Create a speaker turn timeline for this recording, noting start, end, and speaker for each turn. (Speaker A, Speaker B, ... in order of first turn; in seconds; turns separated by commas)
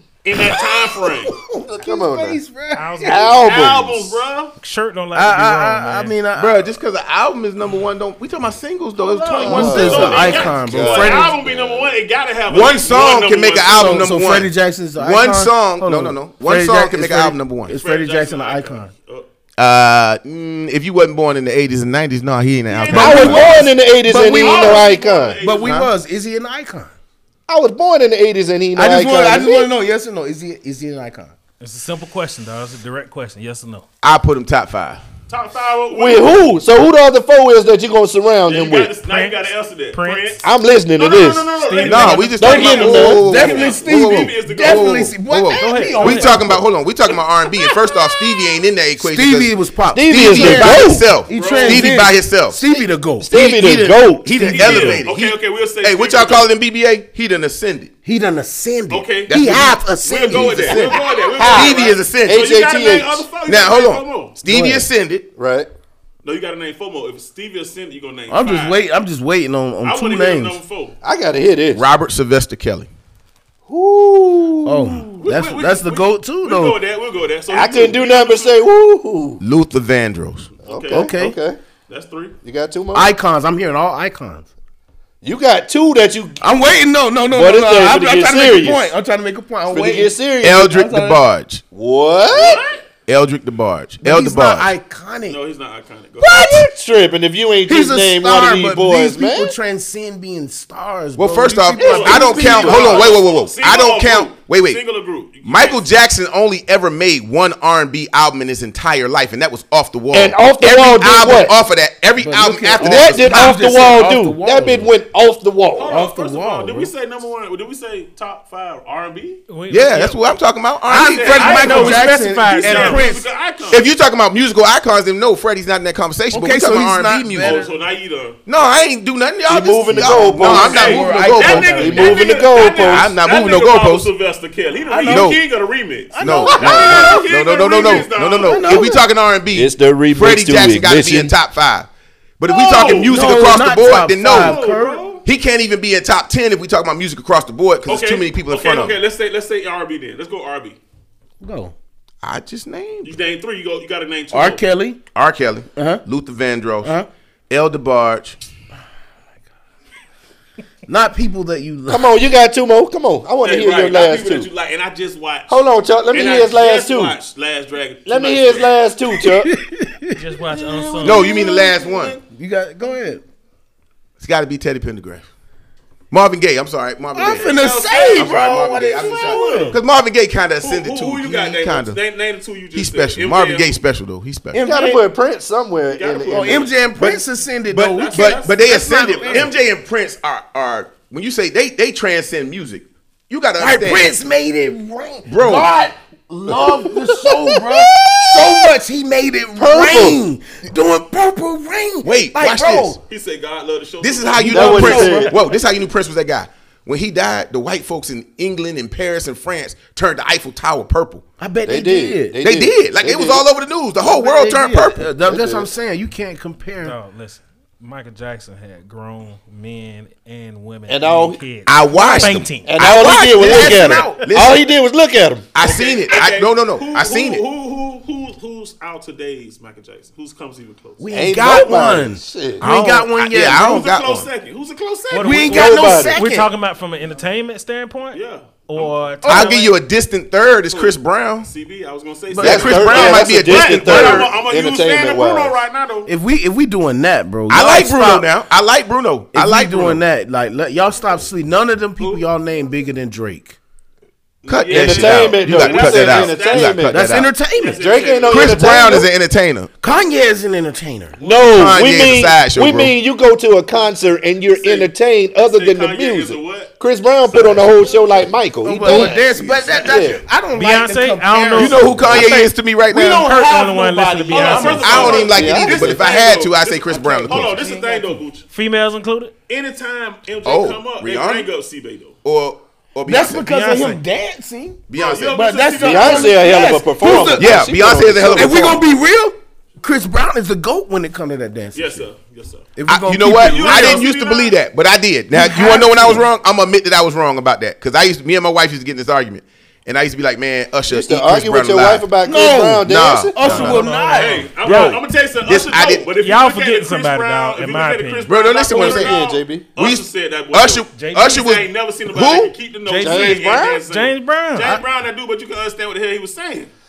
Speaker A: 0.2-1.3, Speaker B: 0.3-3.3, Speaker C: 1.8-2.4, Speaker D: 2.7-3.4, Speaker C: 3.0-4.2, Speaker A: 3.2-4.5, Speaker D: 4.6-6.2, Speaker B: 5.1-6.8, Speaker E: 6.3-10.5, Speaker A: 9.3-14.1, Speaker B: 9.3-11.3, Speaker C: 9.3-11.9, Speaker E: 12.5-17.7, Speaker B: 13.7-18.9, Speaker A: 17.7-19.2, Speaker E: 19.6-23.5, Speaker A: 22.7-25.8, Speaker C: 22.9-25.4, Speaker B: 23.1-24.9, Speaker B: 25.4-26.9, Speaker E: 25.6-25.9, Speaker C: 27.5-29.7, Speaker B: 28.7-31.3, Speaker D: 31.6-33.9, Speaker E: 34.0-35.0, Speaker A: 35.3-36.5, Speaker C: 35.9-39.0, Speaker A: 38.5-45.1, Speaker D: 39.0-40.4, Speaker C: 40.4-41.5, Speaker D: 41.6-42.5, Speaker E: 41.8-49.5, Speaker C: 42.4-43.2, Speaker B: 42.9-46.6, Speaker D: 45.5-46.4, Speaker B: 49.0-53.3, Speaker C: 49.9-51.0, Speaker E: 50.1-52.6, Speaker A: 51.3-52.0, Speaker C: 53.2-54.8, Speaker E: 53.3-57.9, Speaker B: 53.9-55.0, Speaker A: 54.4-56.5, Speaker B: 58.0-60.9, Speaker A: 58.9-64.3, Speaker E: 59.3-62.5, Speaker C: 60.8-63.3, Speaker E: 63.5-65.3, Speaker B: 64.5-64.8, Speaker C: 65.3-65.7, Speaker A: 66.2-68.8, Speaker B: 68.3-70.6, Speaker A: 69.8-71.0, Speaker C: 71.0-71.8, Speaker E: 71.7-72.9, Speaker C: 73.7-75.1, Speaker B: 74.6-76.8, Speaker A: 75.2-78.7, Speaker C: 77.5-79.4, Speaker E: 79.4-80.5, Speaker A: 80.6-81.1, Speaker C: 80.7-81.6, Speaker B: 80.9-81.4, Speaker A: 81.9-82.3, Speaker C: 82.4-83.1, Speaker B: 82.9-84.5, Speaker C: 85.2-86.4, Speaker B: 86.4-91.2, Speaker C: 87.3-88.9, Speaker C: 89.7-90.7, Speaker E: 90.4-91.6, Speaker C: 91.7-92.6, Speaker A: 92.3-92.8, Speaker E: 93.1-94.7, Speaker B: 94.0-95.4, Speaker A: 95.3-96.5, Speaker C: 96.2-99.5, Speaker B: 97.7-103.0, Speaker E: 101.2-104.8, Speaker A: 101.8-105.9, Speaker C: 102.1-103.0, Speaker E: 105.4-113.6, Speaker C: 110.1-111.5, Speaker B: 112.2-114.9, Speaker C: 112.8-116.0, Speaker A: 115.7-119.4, Speaker B: 115.9-116.9, Speaker D: 119.5-120.3, Speaker E: 119.7-122.0, Speaker B: 120.9-123.2, Speaker A: 120.9-123.9, Speaker D: 121.3-123.1, Speaker E: 123.7-127.6, Speaker B: 126.3-127.7, Speaker A: 127.4-128.4, Speaker E: 128.4-132.1, Speaker C: 129.5-133.1, Speaker B: 129.9-132.2, Speaker A: 130.5-138.8, Speaker E: 132.8-134.1, Speaker B: 134.9-135.4, Speaker E: 135.1-135.4, Speaker B: 136.1-137.2, Speaker E: 136.2-144.6, Speaker B: 138.4-139.0, Speaker C: 139.5-141.3, Speaker A: 142.5-143.5, Speaker B: 142.7-145.0, Speaker A: 144.2-145.2, Speaker E: 145.2-149.0, Speaker A: 147.8-150.8, Speaker B: 151.4-151.7, Speaker E: 152.2-153.2, Speaker A: 153.0-154.6, Speaker B: 154.3-155.0, Speaker E: 155.1-156.9, Speaker B: 155.7-156.0, Speaker B: 156.8-157.1, Speaker E: 157.5-158.4, Speaker B: 160.9-162.1, Speaker C: 161.9-164.5, Speaker A: 163.4-165.6, Speaker C: 165.5-167.2, Speaker A: 166.1-168.8, Speaker C: 168.1-169.5, Speaker B: 169.4-170.2, Speaker D: 170.1-171.3, Speaker A: 170.5-172.2, Speaker E: 171.0-172.2, Speaker B: 172.3-173.2, Speaker E: 174.2-175.3, Speaker E: 176.1-182.0, Speaker B: 177.1-179.8, Speaker A: 177.2-179.8, Speaker A: 180.6-183.8, Speaker E: 182.7-184.6, Speaker B: 184.5-185.1, Speaker C: 184.6-186.7, Speaker A: 185.9-186.8, Speaker B: 186.3-189.5, Speaker E: 187.0-194.1, Speaker A: 187.8-189.6, Speaker B: 193.6-203.0, Speaker E: 195.3-195.7, Speaker C: 196.5-198.5, Speaker C: 199.6-200.2, Speaker E: 202.0-203.0, Speaker A: 203.1-205.2, Speaker E: 204.0-211.2, Speaker B: 204.4-205.3, Speaker C: 204.5-205.4, Speaker B: 211.4-212.4, Speaker C: 211.7-213.4, Speaker E: 212.4-215.1, Speaker B: 214.0-217.0, Speaker C: 215.2-215.7, Speaker D: 216.8-222.8, Speaker C: 220.9-221.4, Speaker E: 221.7-224.6, Speaker B: 221.9-222.3, Speaker C: 222.6-225.5, Speaker B: 223.2-224.3, Speaker E: 225.5-227.4, Speaker A: 225.6-231.0, Speaker B: 231.0-233.7, Speaker C: 231.1-232.7, Speaker E: 232.6-234.3, Speaker A: 233.4-235.7, Speaker D: 235.1-239.8, Speaker B: 235.2-236.5, Speaker C: 235.4-236.2, Speaker A: 238.1-238.9, Speaker E: 239.2-241.5, Speaker B: 239.2-239.5, Speaker A: 240.7-246.1, Speaker B: 242.3-243.1, Speaker E: 242.4-244.3, Speaker C: 242.4-245.6, Speaker B: 246.1-248.3, Speaker E: 247.5-250.0, Speaker B: 249.3-253.6, Speaker A: 254.4-256.9, Speaker E: 254.5-257.3, Speaker C: 254.7-257.1, Speaker B: 256.9-257.8, Speaker A: 257.6-258.8, Speaker C: 257.7-259.1, Speaker E: 258.3-259.7, Speaker B: 259.8-261.2, Speaker A: 261.2-261.8, Speaker C: 261.2-270.2, Speaker E: 261.5-262.9, Speaker A: 264.5-266.8, Speaker A: 267.3-268.3, Speaker B: 268.6-275.6, Speaker A: 268.9-269.9, Speaker E: 269.3-269.8, Speaker D: 270.5-272.5, Speaker E: 271.6-273.3, Speaker D: 273.1-275.2, Speaker A: 274.3-278.5, Speaker E: 274.8-277.6, Speaker C: 275.2-276.0, Speaker B: 277.0-278.2, Speaker D: 278.5-279.3, Speaker A: 279.5-282.2, Speaker E: 280.4-281.5, Speaker E: 282.2-283.5, Speaker B: 283.1-287.7, Speaker D: 283.4-284.0, Speaker E: 284.9-285.4, Speaker A: 284.9-286.9, Speaker C: 285.8-288.8, Speaker E: 287.3-288.8, Speaker B: 288.3-292.1, Speaker A: 291.7-292.7, Speaker B: 292.8-294.0, Speaker E: 292.9-302.1, Speaker A: 293.3-294.6, Speaker B: 295.3-296.3, Speaker C: 300.9-303.7, Speaker B: 302.2-305.0, Speaker E: 302.8-303.8, Speaker D: 303.4-305.0, Speaker A: 304.1-316.7, Speaker E: 305.4-306.1, Speaker D: 306.1-308.3, Speaker E: 308.3-309.2, Speaker C: 308.7-309.7, Speaker E: 309.8-312.5, Speaker D: 310.9-311.5, Speaker D: 312.8-314.8, Speaker C: 313.0-313.8